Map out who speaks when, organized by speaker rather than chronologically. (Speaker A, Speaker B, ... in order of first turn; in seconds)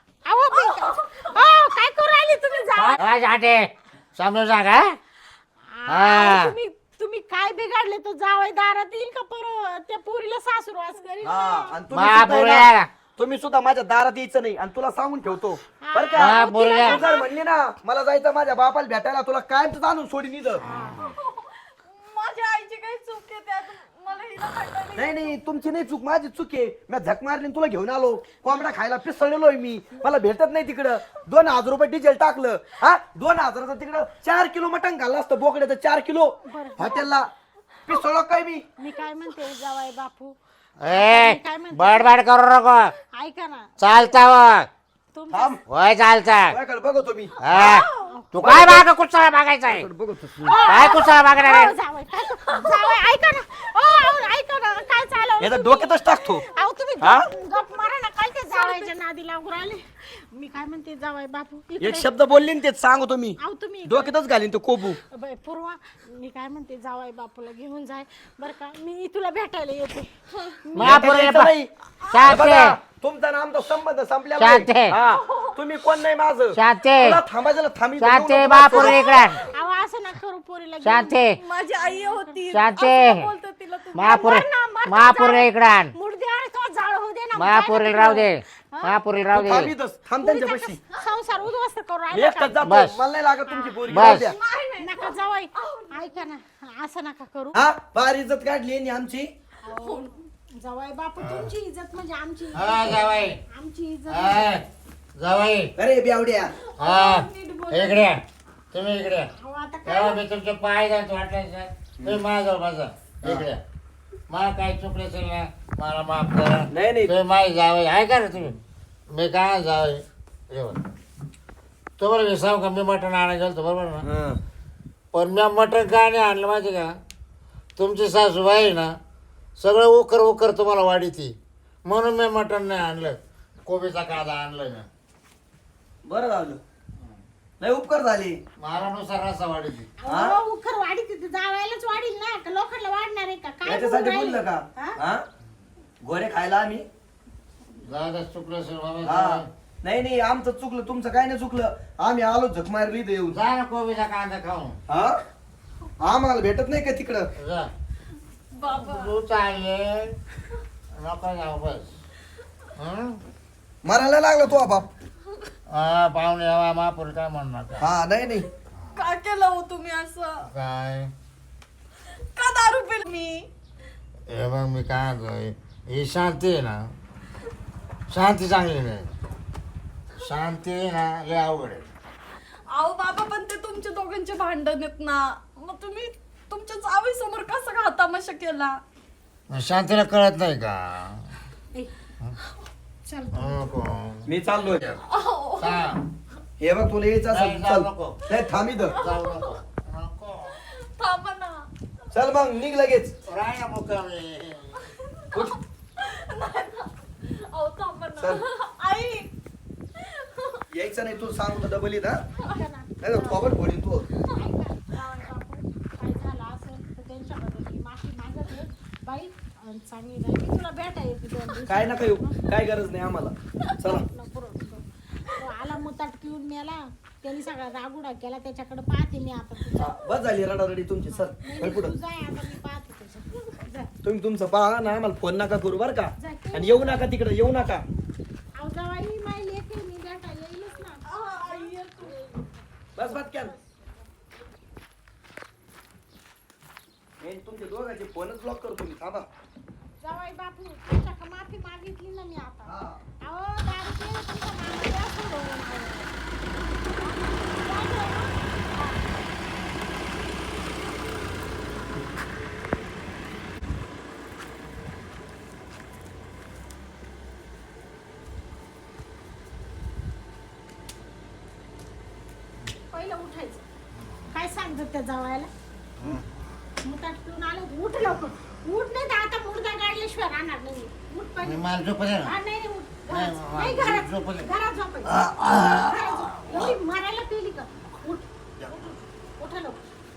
Speaker A: 0.2-3.0, 5.7-11.8, 15.8-17.2, 20.6-21.1, 36.4-37.0, 38.8-40.3, 40.9-42.1, 43.1-43.7, 45.1-45.6, 48.0-48.8, 50.4-62.1, 63.4-64.1, 65.1-70.1, 70.6-71.0, 79.0-81.2, 81.7-82.4, 84.0-88.9, 90.2-94.1, 94.8-97.6, 99.6-104.6, 109.3-110.2, 140.0-145.0, 193.1-193.7, 212.3-213.5, 214.3-222.4, 223.8-230.0, 231.4-233.9, 236.2-237.0, 238.6-241.7, 250.0-256.1, 257.0-259.0, 272.9-273.6, 274.3-275.5, 276.8-281.6, 282.2-289.8
Speaker B: 0.6-1.3, 21.0-25.4, 47.5-48.1, 52.3-53.0, 58.5-58.9, 72.0-72.4, 75.0-75.6, 79.2-79.5, 81.4-84.3, 94.1-96.1, 99.6-100.1, 106.6-108.1, 158.5-159.2, 168.9-170.5, 172.1-173.5, 182.7-188.8, 195.1-195.9, 198.8-199.6, 200.6-201.7, 204.8-209.3, 209.9-210.6, 214.9-215.3, 241.1-242.2
Speaker C: 2.8-5.0, 5.9-6.5, 11.9-12.9, 16.2-17.0, 40.8-42.9, 43.8-44.7, 45.7-46.6, 47.4-49.9, 50.7-51.7, 70.7-71.5, 72.1-72.8, 74.4-75.0, 76.5-77.2, 78.0-79.4, 80.8-81.4, 82.5-83.3, 83.9-85.9, 87.3-89.7, 92.6-93.0, 93.9-94.3, 101.2-101.5, 102.5-103.4, 104.1-104.6, 105.2-105.7, 106.8-109.3, 109.8-113.6, 114.3-118.5, 119.1-120.8, 122.0-124.1, 125.1-127.0, 127.8-129.0, 129.6-134.9, 138.6-139.9, 147.8-149.5, 153.3-154.8, 157.3-157.7, 158.7-160.2, 160.9-161.9, 162.8-163.2, 165.7-167.9, 170.5-171.1, 174.3-176.9, 178.1-179.1, 180.2-181.9, 189.5-191.4, 193.3-194.3, 195.6-196.0, 197.3-198.2, 198.9-200.6, 203.3-204.9, 276.0-276.2, 281.4-282.3, 283.1-284.5, 285.1-286.7
Speaker D: 11.2-20.6, 24.9-37.3, 37.9-38.6, 45.3-45.6, 46.5-47.4, 48.4-48.8, 49.7-50.6, 55.4-56.5, 57.0-57.2, 61.8-65.0, 70.8-71.7, 72.2-79.0, 89.3-90.8, 92.1-94.4, 97.5-99.3, 105.8-106.5, 116.7-117.1, 124.0-124.4, 136.0-136.6, 137.6-138.4, 140.1-140.4, 143.6-145.2, 146.0-146.9, 149.0-153.4, 154.9-155.2, 156.0-157.3, 163.8-164.9, 167.8-168.5, 194.3-195.0, 196.6-198.9, 202.1-203.2, 210.7-212.2, 213.0-214.2, 221.7-224.0, 229.8-231.9, 234.0-237.8, 242.9-243.6, 247.2-249.3, 252.7-253.0